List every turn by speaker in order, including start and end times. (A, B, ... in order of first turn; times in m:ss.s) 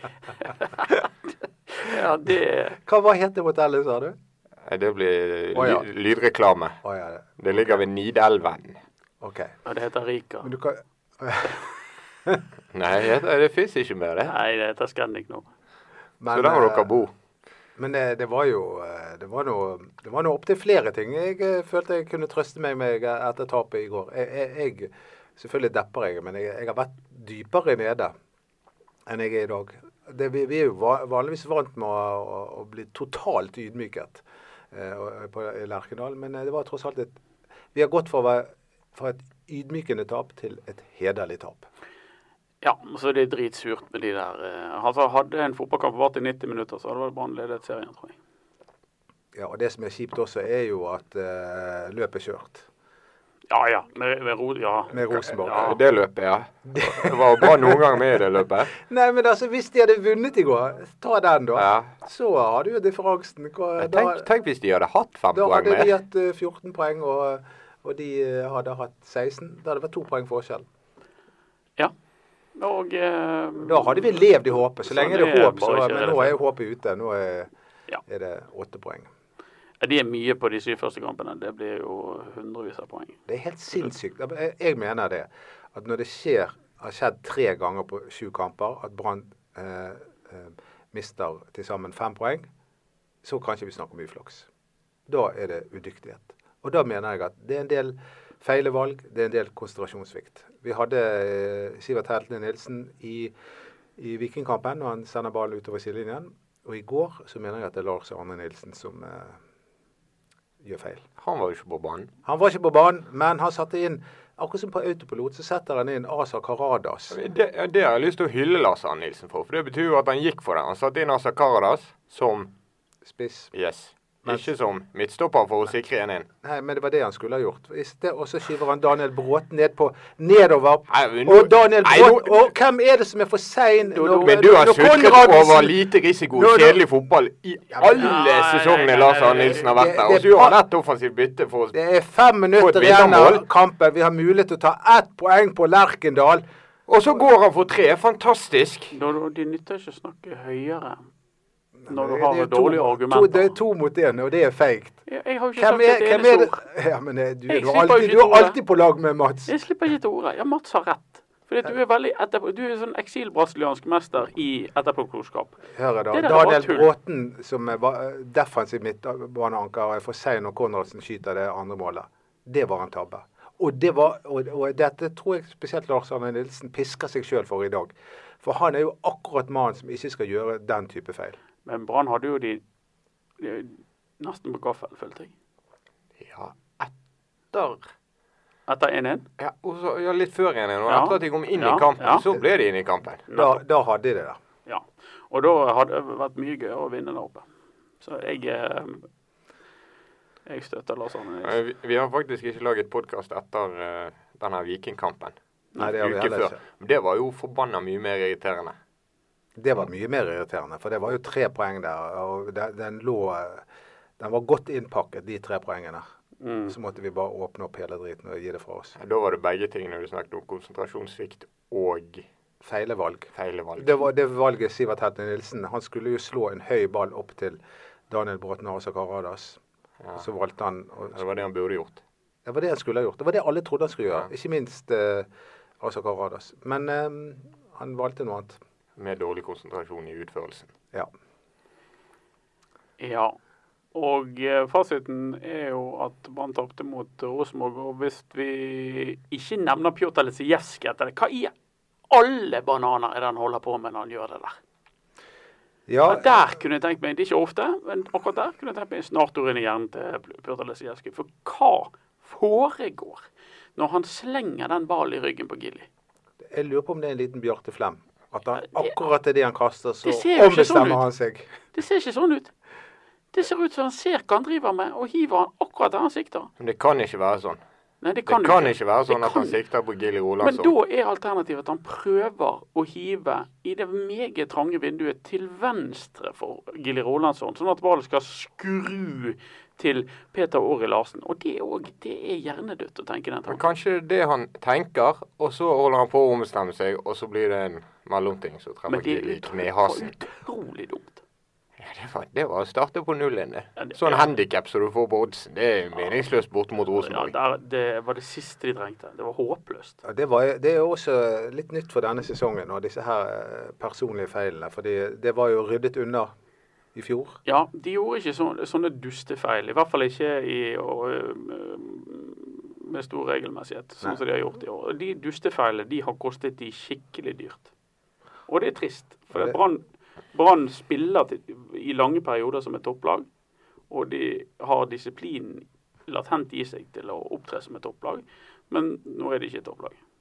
0:01.7-0:02.8 A
0:02.8-0:04.2 B
0:04.6-0:06.8 C
0:05.5-0:05.8 B
0:06.8-0:07.7 B
0:07.4-0:08.8 C
0:09.2-0:09.5 B
0:09.6-0:10.5 A
0:10.4-0:11.6 B
0:12.7-0:14.3 C
0:14.3-0:15.4 A
0:16.2-0:17.0 B
0:16.3-0:17.1 C
0:17.8-0:28.1 B
0:29.1-0:37.2 B
0:37.7-0:41.6 B
0:42.6-0:48.2 A
0:49.3-0:52.7 B
0:53.5-0:55.8 A
0:54.9-0:55.8 B
0:55.5-0:58.7 C
0:56.7-0:57.8 B
0:58.7-1:04.2 B
1:01.6-1:01.9 C
1:03.8-1:05.9 C
1:05.3-1:10.6 B
1:12.6-1:16.4 A
1:13.6-1:17.5 B
1:18.0-1:19.1 B
1:19.8-1:23.2 A
1:23.3-1:32.5 B
1:33.2-1:34.5 B
1:35.1-1:43.3 B
1:44.0-1:49.4 B
1:50.6-1:51.0 B
1:51.2-1:52.1 C
1:52.2-1:57.2 B
1:57.1-2:02.5 C
2:03.0-2:03.5 B
2:03.5-2:06.3 C
2:06.4-2:15.8 B
2:10.9-2:12.5 C
2:13.9-2:14.5 A
2:14.2-2:21.7 C
2:16.3-2:16.8 B
2:17.7-2:18.1 B
2:17.9-2:19.9 A
2:19.7-2:20.6 B
2:21.7-2:26.4 B
2:22.6-2:23.4 C
2:26.9-2:29.0 C
2:28.9-2:31.0 A
2:31.8-2:35.0 B
2:31.9-2:33.5 A
2:35.1-2:36.6 A
2:35.6-2:39.5 B
2:37.5-2:38.6 A
2:39.5-2:46.9 A
2:45.7-3:01.4 B
3:01.6-3:02.6 A
3:03.4-3:05.3 A
3:06.2-3:06.9 C
3:07.5-3:07.8 C
3:08.7-3:09.2 A
3:09.4-3:13.2 C
3:10.9-3:12.2 A
3:13.3-3:13.6 A
3:13.3-3:14.4 B
3:14.6-3:17.4 A
3:18.0-3:19.1 A
3:20.4-3:21.6 A
3:21.4-3:28.7 C
3:25.8-3:26.6 B
3:29.6-3:33.6 B
3:34.2-3:36.0 B
3:36.4-3:36.7 A
3:36.7-3:39.0 B
3:39.0-3:42.3 C
3:42.6-3:49.6 B
3:43.3-3:44.1 C
3:50.2-3:51.2 B
3:51.1-3:52.0 C
3:52.4-3:55.3 B
3:55.8-3:58.6 B
3:59.0-4:00.7 C
4:03.0-4:03.4 A
4:03.9-4:11.5 A
4:12.1-4:14.6 A
4:15.9-4:16.3 B
4:16.1-4:25.9 A
4:26.5-4:31.5 B
4:30.0-4:31.0 A
4:31.7-4:32.5 A
4:33.3-4:36.5 A
4:36.6-4:37.6 C
4:38.0-4:39.6 A
4:38.2-4:40.7 C
4:40.4-4:53.6 A
4:53.5-5:00.1 C
4:58.9-5:01.2 A
5:01.8-5:07.3 C
5:03.8-5:04.3 A
5:06.9-5:10.0 A
5:10.0-5:16.3 B
5:16.9-5:17.4 B
5:17.4-5:27.7 A
5:28.5-5:33.3 A
5:29.3-5:29.6 B
5:33.9-5:40.0 A